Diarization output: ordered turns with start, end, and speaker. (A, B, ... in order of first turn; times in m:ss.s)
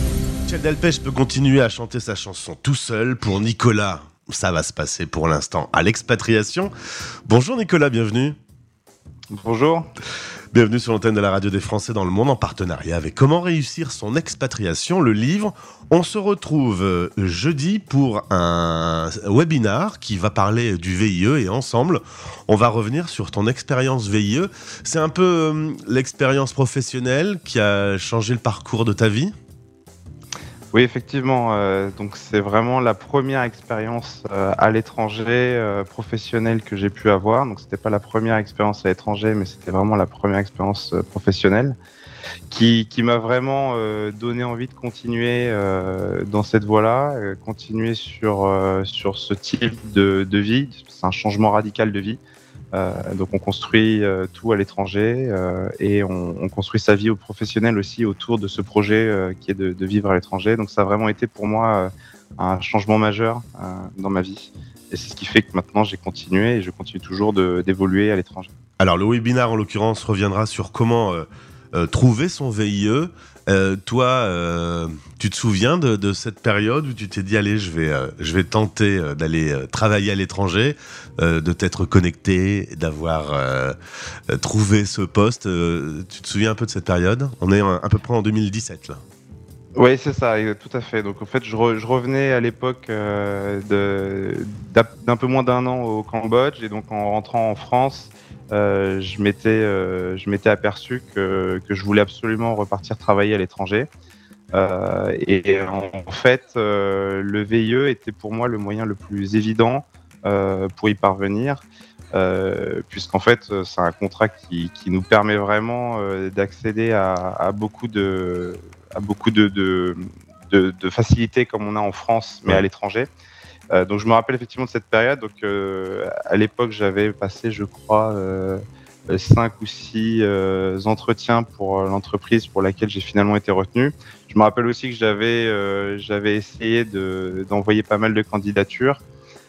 0:00.5-0:06.7 A
0:07.3-0:08.3 A
0:09.3-0:09.9 B
0:10.5-0:29.3 A
0:30.7-0:41.8 B
0:42.5-0:52.2 B
0:52.7-1:08.5 B
1:08.8-1:23.8 A
1:24.3-1:29.0 A
1:29.7-1:43.9 B
1:44.5-2:03.1 B
2:03.7-2:19.0 B